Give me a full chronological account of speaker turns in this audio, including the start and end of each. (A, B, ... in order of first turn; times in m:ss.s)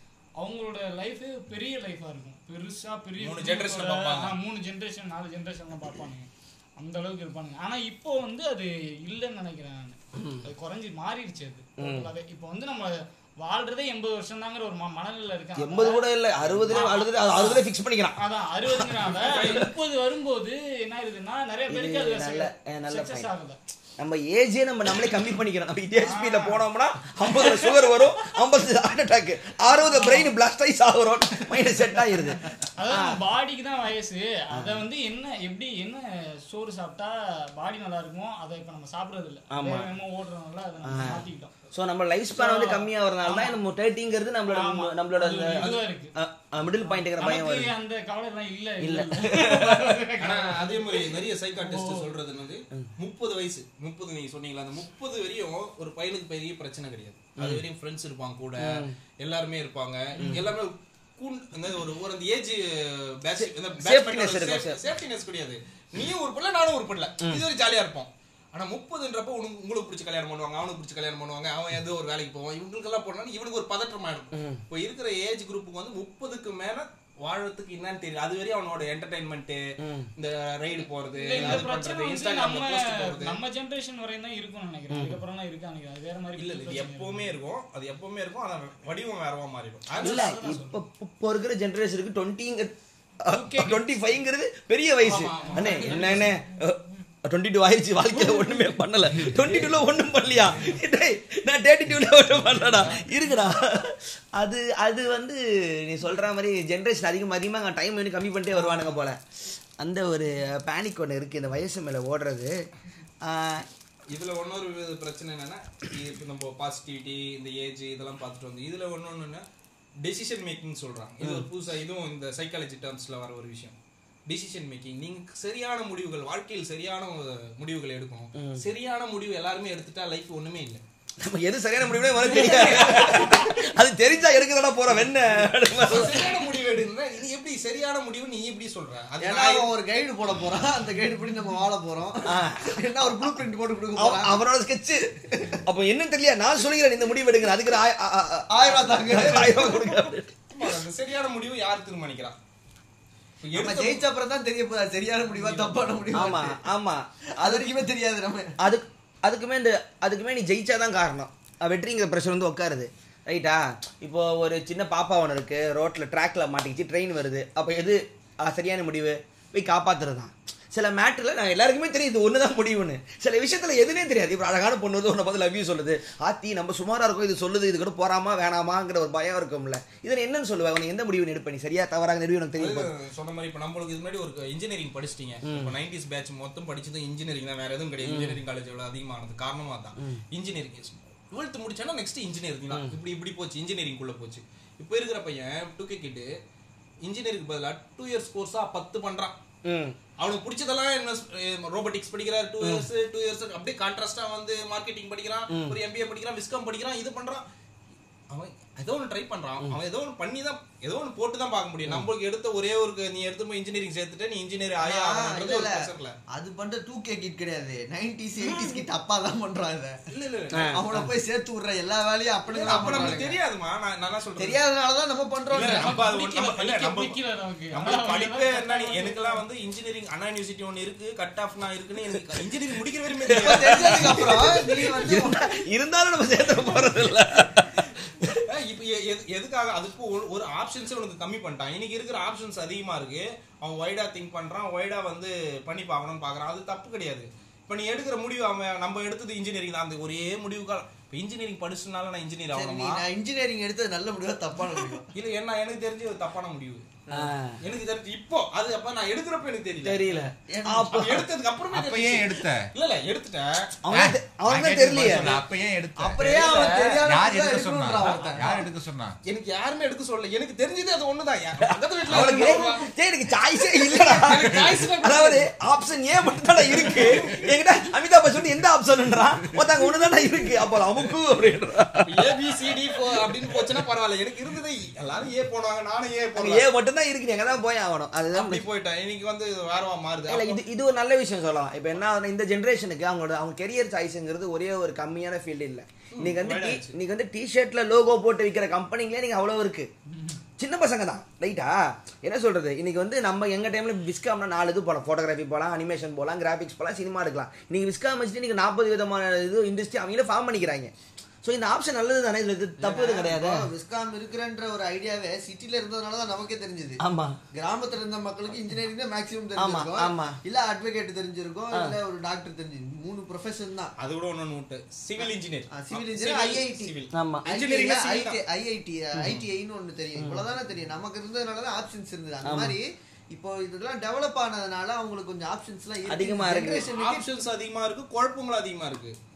0:00.4-0:16.1 A
0:03.2-0:04.4 B
0:11.8-0:12.1 C
0:15.6-0:18.2 C
0:16.7-0:17.6 A
0:18.2-0:23.6 A
0:18.7-0:19.7 C
0:21.7-0:23.3 C
0:24.0-0:33.2 C
0:26.0-0:26.6 A
0:29.8-0:30.3 A
0:32.8-0:41.5 A
0:34.5-0:34.8 C
0:39.5-0:39.9 C
0:40.8-0:47.7 C
0:42.4-0:43.6 A
0:44.5-0:46.1 A
0:46.8-0:51.0 A
0:48.8-0:50.0 C
0:50.2-1:19.6 B
0:51.6-0:52.1 A
0:57.4-0:57.6 C
0:58.6-0:59.0 C
1:00.2-1:00.5 C
1:03.4-1:04.8 C
1:14.3-1:14.6 C
1:19.8-1:20.1 C
1:20.2-1:23.4 B
1:21.2-1:27.3 A
1:24.9-1:25.2 C
1:26.4-1:30.6 B
1:30.0-1:30.7 A
1:30.0-1:49.2 C
1:33.3-1:33.8 A
1:35.0-1:36.3 B
1:35.3-1:36.3 A
1:49.8-1:52.5 C
1:53.2-1:53.7 C
1:54.1-1:59.4 B
2:00.0-2:03.8 B
2:04.3-2:10.8 B
2:08.4-2:08.6 C
2:11.2-2:16.4 C
2:12.4-2:13.1 B
2:15.8-2:19.7 B
2:19.2-2:24.4 D
2:22.2-2:23.4 C
2:24.0-2:30.3 C
2:28.5-2:29.8 D
2:30.5-2:32.4 B
2:33.4-2:34.0 B
2:33.6-2:36.6 D
2:35.3-2:36.3 B
2:36.1-2:37.7 C
2:37.4-2:38.5 D
2:38.6-3:02.9 C
3:02.6-3:16.3 B
3:05.4-3:05.8 C
3:08.0-3:08.4 C
3:17.0-3:19.4 B
3:19.6-3:20.0 C
3:20.2-3:27.4 B
3:25.5-3:25.8 C
3:28.3-3:36.2 B
3:34.8-3:40.0 D
3:40.1-3:40.7 B
3:40.5-3:43.3 D
3:40.5-3:41.1 C
3:42.5-3:44.6 B
3:44.4-3:46.0 D
3:45.5-3:47.2 B
3:45.5-3:49.4 A
3:47.7-3:54.8 B
3:53.2-3:58.4 C
3:53.4-3:55.4 D
3:58.4-4:13.0 B
4:12.5-4:15.0 D
4:15.1-4:16.8 B
4:17.1-4:17.6 C
4:17.6-4:23.7 B
4:19.8-4:21.2 C
4:20.5-4:20.9 D
4:21.7-4:22.7 E
4:23.9-4:25.3 C
4:23.9-4:29.2 E
4:26.0-4:28.6 D
4:29.2-4:32.9 B
4:32.0-4:42.3 C
4:32.3-4:32.6 E
4:33.7-4:35.5 B
4:36.8-4:37.3 B
4:42.1-4:46.6 B
4:46.4-4:48.6 C
4:48.3-4:50.6 B
4:50.3-4:59.9 C
4:56.1-4:57.0 B
5:00.6-5:10.9 C
5:11.4-5:13.7 C
5:12.8-5:17.0 D
5:17.0-5:17.4 C
5:17.5-5:23.9 D
5:19.6-5:20.4 C
5:24.0-5:28.4 B
5:25.2-5:26.9 D
5:27.1-5:27.5 C
5:27.4-5:37.3 D
5:30.2-5:30.4 C
5:32.4-5:32.8 C
5:36.1-5:36.8 C
5:36.9-5:39.1 B